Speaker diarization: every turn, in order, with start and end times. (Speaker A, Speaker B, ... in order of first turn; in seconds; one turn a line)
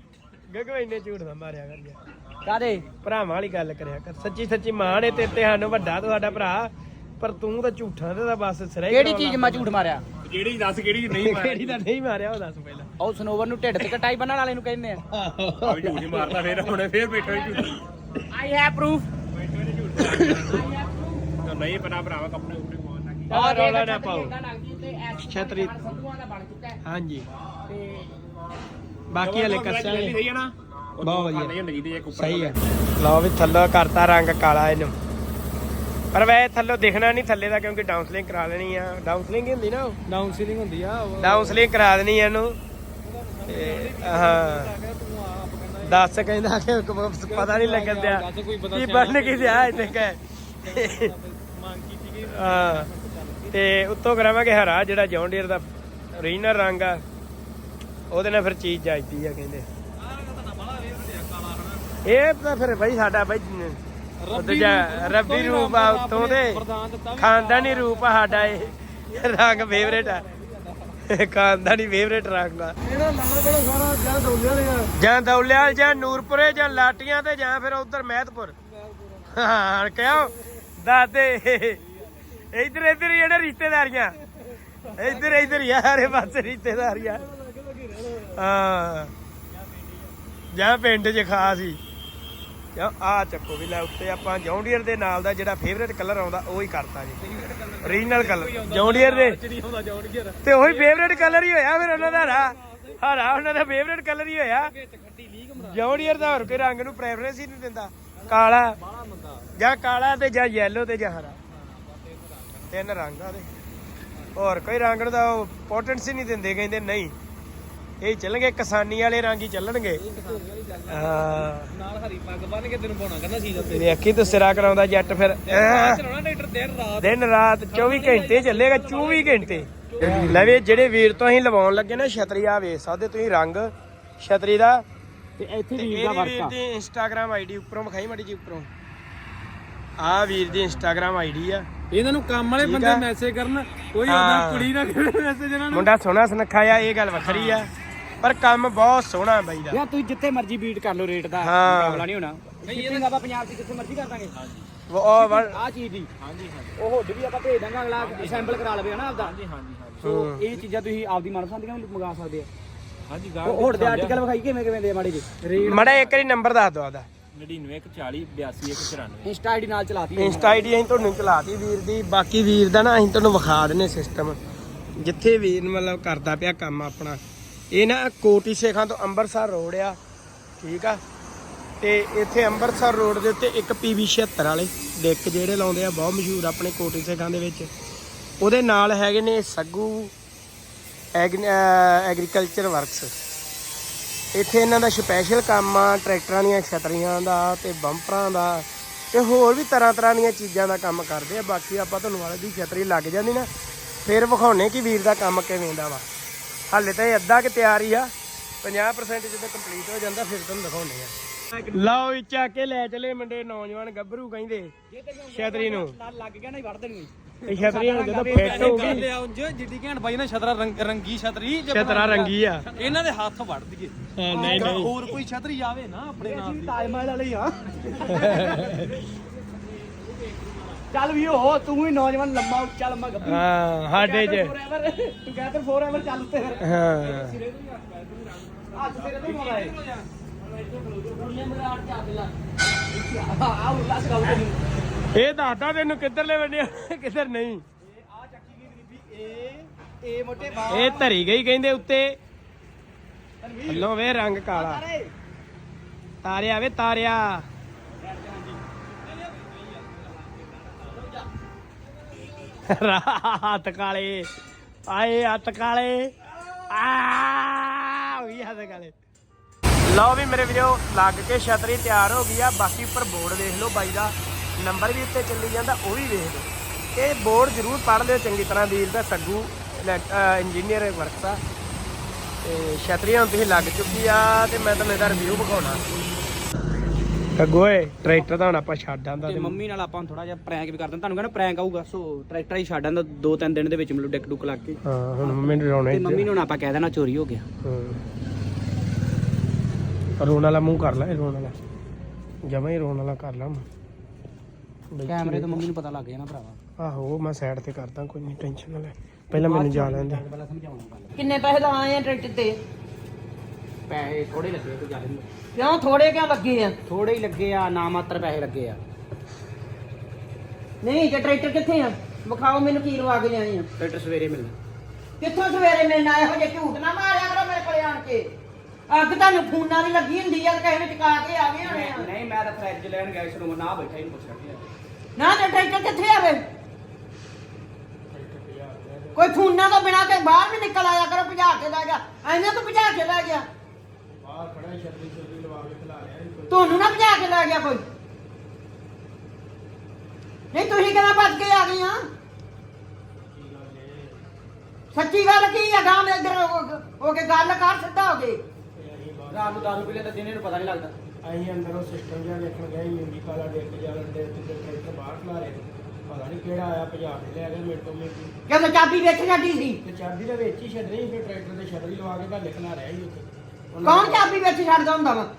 Speaker A: 0.5-2.0
Speaker B: 2.4-2.9
Speaker A: 3.0-9.7
Speaker C: 5.1-5.8
Speaker B: 8.9-10.0
Speaker C: 10.2-11.8
Speaker A: 11.1-12.9
Speaker B: 13.0-15.0
Speaker A: 15.1-16.6
Speaker C: 15.6-17.8
Speaker B: 17.1-17.7
Speaker B: 18.3-19.1
Speaker C: 19.3-20.7
Speaker A: 20.0-20.6
Speaker B: 20.5-21.2
Speaker C: 21.4-23.3
Speaker A: 23.3-24.3
Speaker B: 23.3-26.8
Speaker A: 25.2-25.9
Speaker A: 26.8-27.2
Speaker B: 27.7-28.1
Speaker A: 29.1-30.2
Speaker C: 29.2-32.6
Speaker A: 31.0-31.6
Speaker A: 32.1-35.0
Speaker A: 36.1-40.0
Speaker D: 40.1-41.6
Speaker A: 41.2-42.6
Speaker D: 43.0-46.3
Speaker A: 43.5-44.8
Speaker A: 45.8-51.1
Speaker D: 47.3-50.0
Speaker D: 50.6-53.5
Speaker A: 52.2-52.9
Speaker A: 53.5-57.0
Speaker A: 58.1-59.7
Speaker D: 60.0-61.9
Speaker A: 62.0-63.8
Speaker D: 64.2-68.6
Speaker A: 64.3-66.6
Speaker A: 67.2-70.2
Speaker D: 69.4-71.0
Speaker A: 71.1-72.8
Speaker D: 72.8-74.9
Speaker A: 75.0-78.5
Speaker D: 78.7-79.3
Speaker A: 79.3-81.8
Speaker A: 82.5-84.2
Speaker A: 85.0-87.3
Speaker D: 87.2-88.3
Speaker A: 88.3-89.1
Speaker A: 90.5-91.8
Speaker A: 92.7-97.2
Speaker D: 97.2-103.0
Speaker A: 97.8-99.4
Speaker A: 100.4-104.7
Speaker D: 104.6-106.7
Speaker A: 105.5-108.8
Speaker D: 108.1-109.5
Speaker A: 109.5-111.4
Speaker D: 111.6-112.5
Speaker A: 112.7-113.5
Speaker A: 114.3-117.1
Speaker A: 118.0-120.0
Speaker D: 120.0-124.8
Speaker A: 120.9-121.7
Speaker A: 123.5-126.0
Speaker D: 125.5-127.2
Speaker A: 127.0-134.8
Speaker D: 127.7-130.2
Speaker B: 135.4-136.5
Speaker A: 135.7-138.7
Speaker A: 140.0-141.7
Speaker C: 141.9-145.8
Speaker D: 141.9-145.7
Speaker A: 142.6-143.1
Speaker A: 144.1-144.7
Speaker A: 145.7-147.7
Speaker C: 147.2-147.6
Speaker A: 148.2-149.8
Speaker B: 149.7-154.3
Speaker A: 151.4-152.0
Speaker C: 152.7-153.1
Speaker C: 154.3-154.7
Speaker A: 154.9-155.6
Speaker B: 155.2-156.1
Speaker C: 156.2-156.7
Speaker B: 156.8-159.3
Speaker C: 157.9-160.0
Speaker A: 160.0-160.4
Speaker B: 160.0-162.5
Speaker C: 163.1-164.2
Speaker B: 163.4-165.2
Speaker C: 165.4-166.2
Speaker A: 165.5-167.1
Speaker C: 167.3-169.3
Speaker B: 169.2-170.7
Speaker A: 170.2-174.4
Speaker A: 175.0-177.2
Speaker A: 177.7-180.0
Speaker A: 180.6-181.0
Speaker A: 181.8-187.7
Speaker A: 188.4-190.1
Speaker A: 191.1-193.1
Speaker A: 194.3-203.5
Speaker A: 204.0-206.1
Speaker A: 206.7-208.1
Speaker A: 208.6-211.1
Speaker A: 211.7-214.7
Speaker B: 214.9-219.0
Speaker A: 215.3-215.9
Speaker A: 217.5-219.1
Speaker D: 218.3-226.9
Speaker A: 221.7-222.6
Speaker A: 224.1-225.0
Speaker B: 224.3-225.2
Speaker B: 226.2-228.6
Speaker A: 228.2-228.8
Speaker D: 228.3-228.8
Speaker C: 230.5-230.8
Speaker B: 230.9-233.4
Speaker A: 233.2-234.5
Speaker B: 233.9-236.7
Speaker A: 236.6-237.4
Speaker C: 236.9-239.0
Speaker B: 238.7-239.8
Speaker D: 239.0-240.0
Speaker D: 240.7-241.1
Speaker B: 241.5-242.3
Speaker B: 242.9-244.6
Speaker A: 245.1-247.6
Speaker B: 247.8-251.1
Speaker A: 250.7-252.1
Speaker B: 253.4-253.9
Speaker A: 253.7-254.8
Speaker B: 254.5-255.1
Speaker A: 256.2-257.4
Speaker B: 258.0-258.6
Speaker A: 262.7-264.3
Speaker A: 264.9-266.1
Speaker A: 266.7-268.9
Speaker A: 269.9-281.4
Speaker A: 282.4-285.8
Speaker A: 287.4-289.6
Speaker B: 289.2-297.4
Speaker A: 294.8-296.3
Speaker A: 297.6-298.0
Speaker A: 300.2-301.5
Speaker A: 302.4-303.6
Speaker A: 304.9-305.7
Speaker B: 305.1-306.6
Speaker A: 306.8-310.2
Speaker B: 309.3-311.1
Speaker E: 311.2-312.6
Speaker B: 313.9-315.3
Speaker E: 315.5-316.8
Speaker B: 316.9-318.8
Speaker E: 320.8-323.7
Speaker B: 323.8-324.6
Speaker E: 325.2-328.3
Speaker E: 328.9-332.1
Speaker B: 331.6-334.6
Speaker E: 335.1-336.4
Speaker A: 338.1-339.4
Speaker E: 339.1-343.5
Speaker A: 344.1-346.9
Speaker E: 346.5-347.8
Speaker E: 350.5-352.0
Speaker A: 353.3-354.2
Speaker E: 354.9-358.4
Speaker A: 358.7-360.1
Speaker B: 359.3-360.9
Speaker A: 361.2-368.3
Speaker E: 368.5-369.8
Speaker A: 369.8-374.3
Speaker E: 373.8-375.3